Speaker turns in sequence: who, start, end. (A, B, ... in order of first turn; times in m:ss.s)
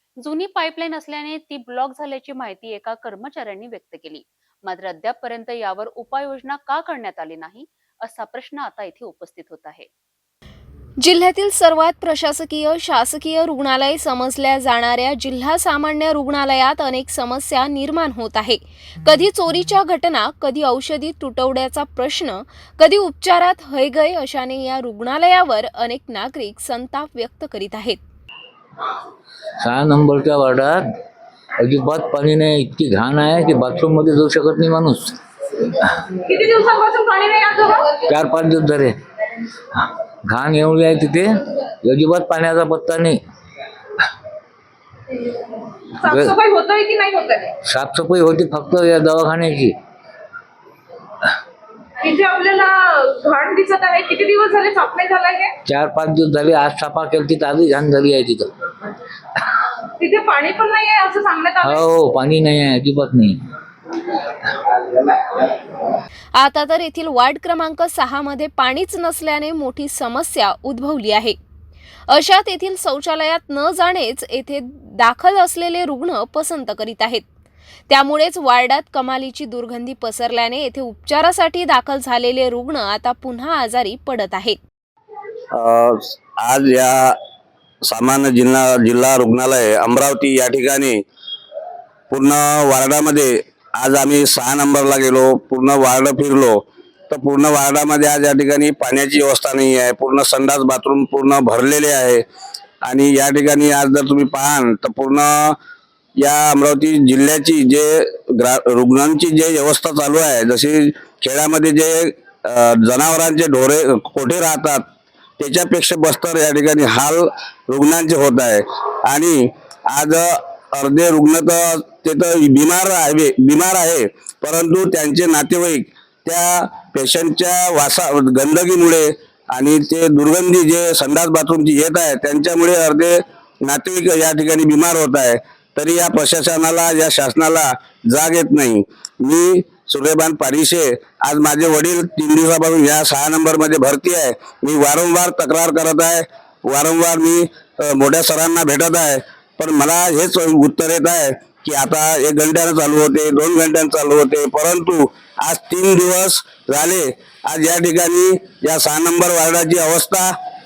0:00.2-0:09.9 A
0:11.0-0:28.0 B
0:29.6-0:30.9 C
0:31.6-0:35.2 C
0:35.7-0:36.0 C
0:36.2-0:38.0 D
0:38.0-0:39.0 C
0:39.7-0:43.2 C
0:46.0-0:47.5 D
0:46.0-0:46.4 C
0:47.6-0:49.7 C
0:52.0-0:55.6 D
0:55.6-0:58.5 C
1:00.0-1:01.8 D
1:01.6-1:03.4 C
1:06.4-1:11.4 B
1:12.1-1:17.2 B
1:17.9-1:24.6 B
1:25.5-1:27.2 E
1:27.8-1:31.0 E
1:32.1-1:36.6 E
1:37.1-1:42.2 E
1:42.8-1:45.6 E
1:46.2-1:54.8 E
1:55.4-2:40.3 E